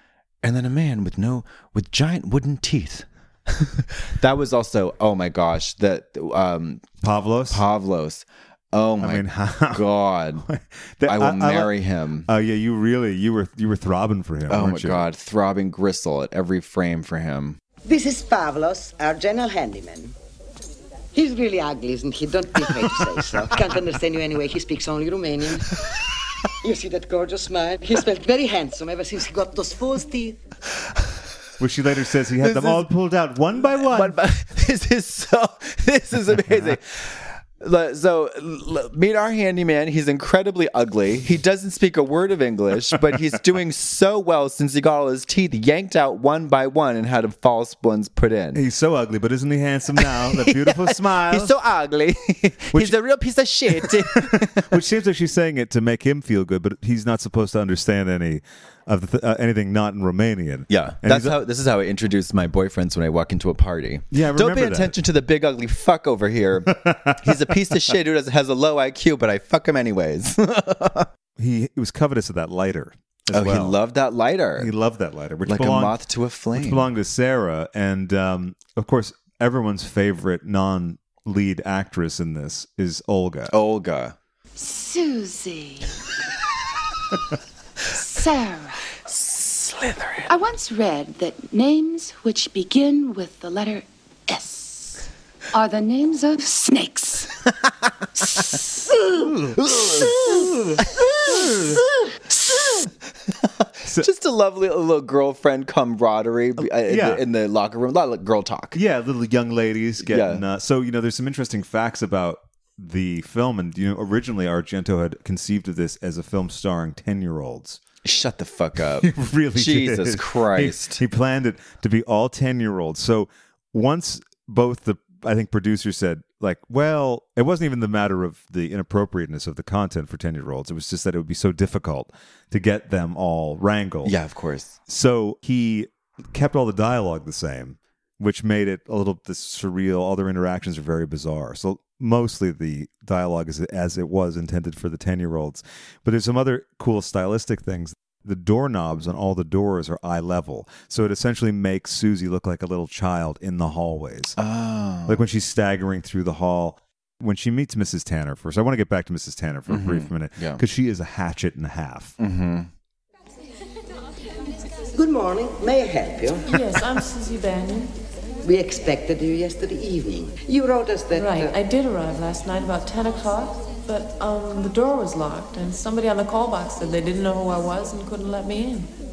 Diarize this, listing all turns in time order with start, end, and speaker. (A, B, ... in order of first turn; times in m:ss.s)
0:00.4-0:10.4 A
0:07.0-0:07.6 B
0:09.0-0:09.8 B
0:10.4-0:11.7 B
0:11.0-0:12.3 A
0:12.3-0:15.0 B
0:14.5-0:17.6 A
0:17.8-0:20.1 C
0:21.1-0:25.8 C
0:26.6-0:30.4 C
0:31.6-0:34.2 B
0:32.4-0:32.9 A
0:33.6-0:48.6 A
0:48.5-0:51.5 B
0:50.0-0:54.8 A
0:53.7-1:01.4 B
1:00.7-1:11.1 A
1:04.1-1:04.9 B
1:06.8-1:07.3 B
1:11.4-1:13.8 B
1:13.3-1:14.7 A
1:14.6-1:16.0 B
1:15.4-1:16.9 A
1:16.5-1:23.5 B
1:23.5-1:24.1 A
1:24.6-1:25.9 D
1:27.9-1:28.8 D
1:29.2-1:30.3 A
1:30.3-1:37.3 D
1:39.1-1:41.8 B
1:39.6-1:40.1 A
1:43.8-1:48.8 A
1:46.6-1:47.2 B
1:48.7-1:57.8 B
1:50.0-1:50.4 A
1:58.0-2:01.0 A
1:59.0-2:14.1 B
2:14.0-2:14.8 A
2:14.9-2:34.4 B
2:34.4-2:35.2 A
2:35.1-2:42.2 B
2:39.7-2:40.6 A
2:42.2-2:42.7 A
2:44.9-2:46.5 C
2:46.5-2:47.9 E
2:48.4-2:51.5 C
2:51.1-2:58.9 E